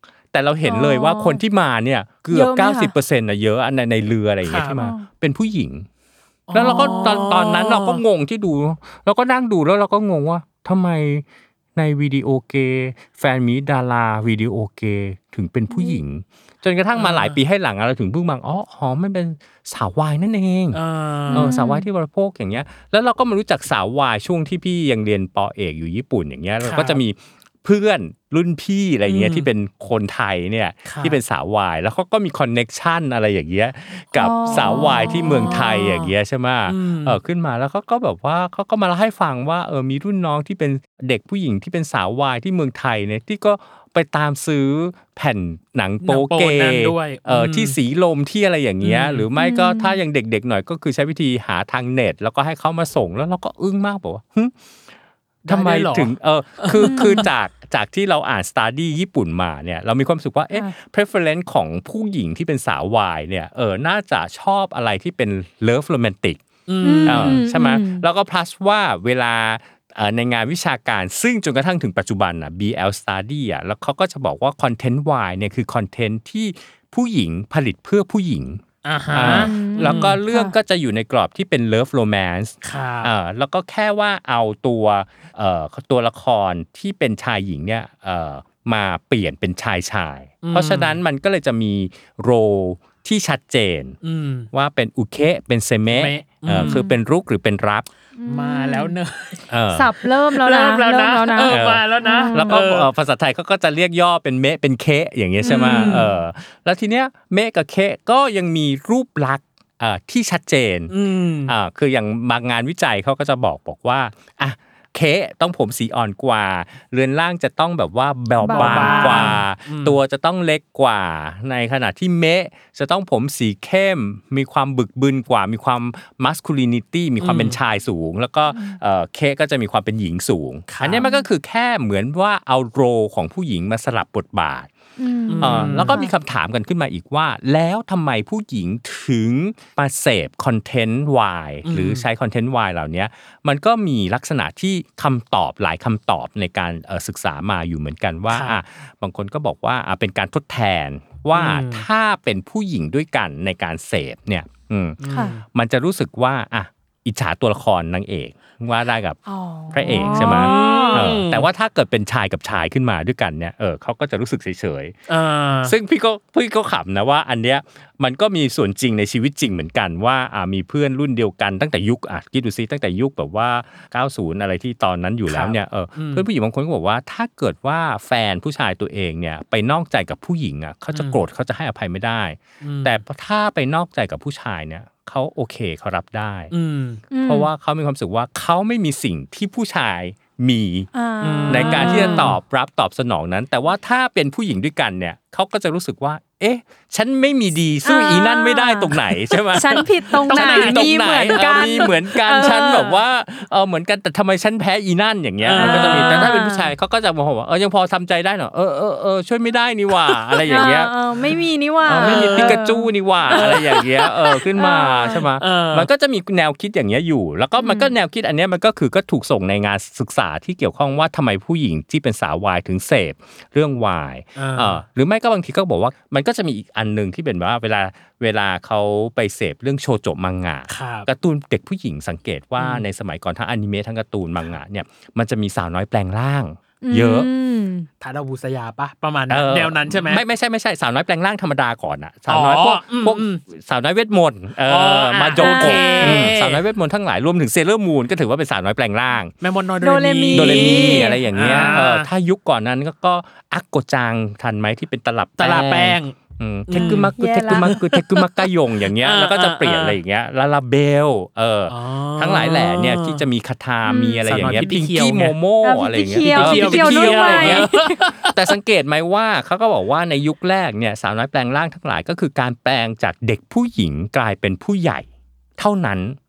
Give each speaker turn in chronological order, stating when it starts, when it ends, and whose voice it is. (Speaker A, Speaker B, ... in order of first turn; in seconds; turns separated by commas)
Speaker A: 0.3-5.9, Speaker B: 0.6-1.4, Speaker B: 2.3-2.9, Speaker C: 4.4-4.8, Speaker B: 4.8-5.0, Speaker C: 6.5-8.0, Speaker A: 6.5-11.2, Speaker A: 11.8-20.8, Speaker B: 15.7-16.0, Speaker C: 16.9-17.4, Speaker C: 20.7-21.5, Speaker B: 21.3-21.9, Speaker A: 21.3-54.5, Speaker C: 26.6-27.0, Speaker C: 29.1-29.5, Speaker C: 30.9-31.2, Speaker B: 34.1-35.6, Speaker C: 34.5-36.1, Speaker C: 36.7-37.2, Speaker C: 46.0-47.8, Speaker C: 48.8-49.3, Speaker B: 49.4-50.0, Speaker A: 55.4-66.4, Speaker C: 55.5-57.3, Speaker B: 56.8-57.3, Speaker C: 66.7-67.4, Speaker B: 66.8-68.0, Speaker A: 67.0-94.0, Speaker C: 78.8-80.2, Speaker B: 79.2-80.5, Speaker C: 82.6-83.1, Speaker C: 90.4-91.0, Speaker C: 94.0-94.5, Speaker A: 94.5-97.9, Speaker C: 95.9-96.8, Speaker B: 96.5-97.0, Speaker B: 98.2-98.9, Speaker C: 98.3-99.5, Speaker A: 99.5-100.0, Speaker B: 99.7-102.6, Speaker C: 100.0-102.9, Speaker A: 101.4-110.9, Speaker B: 105.4-106.1, Speaker C: 105.4-106.1, Speaker C: 110.9-111.5, Speaker A: 111.5-134.7, Speaker B: 118.4-119.4, Speaker C: 118.5-120.0, Speaker C: 127.2-127.6, Speaker B: 128.5-128.8, Speaker C: 130.7-131.1, Speaker B: 131.0-131.3, Speaker B: 135.0-136.1, Speaker C: 135.3-136.0, Speaker A: 135.4-155.0, Speaker C: 141.7-142.0, Speaker C: 148.3-148.6, Speaker C: 151.3-151.8, Speaker C: 155.0-155.4, Speaker B: 155.1-155.4, Speaker A: 155.5-159.2, Speaker B: 159.2-161.1, Speaker A: 159.7-164.9, Speaker C: 159.9-161.5, Speaker C: 165.1-165.7, Speaker A: 165.6-186.5, Speaker C: 175.3-176.2, Speaker C: 180.9-181.2, Speaker C: 182.6-183.0, Speaker C: 186.5-187.0, Speaker B: 187.1-187.5, Speaker A: 187.2-190.9, Speaker B: 190.9-192.3, Speaker C: 191.2-192.4, Speaker A: 191.5-211.0, Speaker B: 197.8-199.0, Speaker B: 199.5-203.0, Speaker C: 199.6-202.6, Speaker C: 205.4-206.3, Speaker B: 205.6-206.7, Speaker C: 210.3-210.7, Speaker B: 210.4-215.2, Speaker A: 211.8-237.3, Speaker C: 212.0-212.6, Speaker C: 213.3-214.1, Speaker C: 215.4-215.9, Speaker B: 217.6-217.9, Speaker C: 224.3-224.8, Speaker C: 230.7-231.1, Speaker C: 232.6-232.8, Speaker B: 236.8-237.9, Speaker C: 238.0-240.2, Speaker A: 239.3-249.3, Speaker C: 242.3-243.4, Speaker C: 244.7-246.6, Speaker B: 245.4-246.3, Speaker C: 249.4-252.1, Speaker B: 249.8-251.8, Speaker A: 250.3-276.2, Speaker C: 255.4-256.1, Speaker C: 256.7-260.0, Speaker B: 256.7-257.8, Speaker C: 261.7-263.2, Speaker B: 263.9-264.6, Speaker C: 264.2-265.4, Speaker B: 265.6-267.9, Speaker C: 266.2-268.4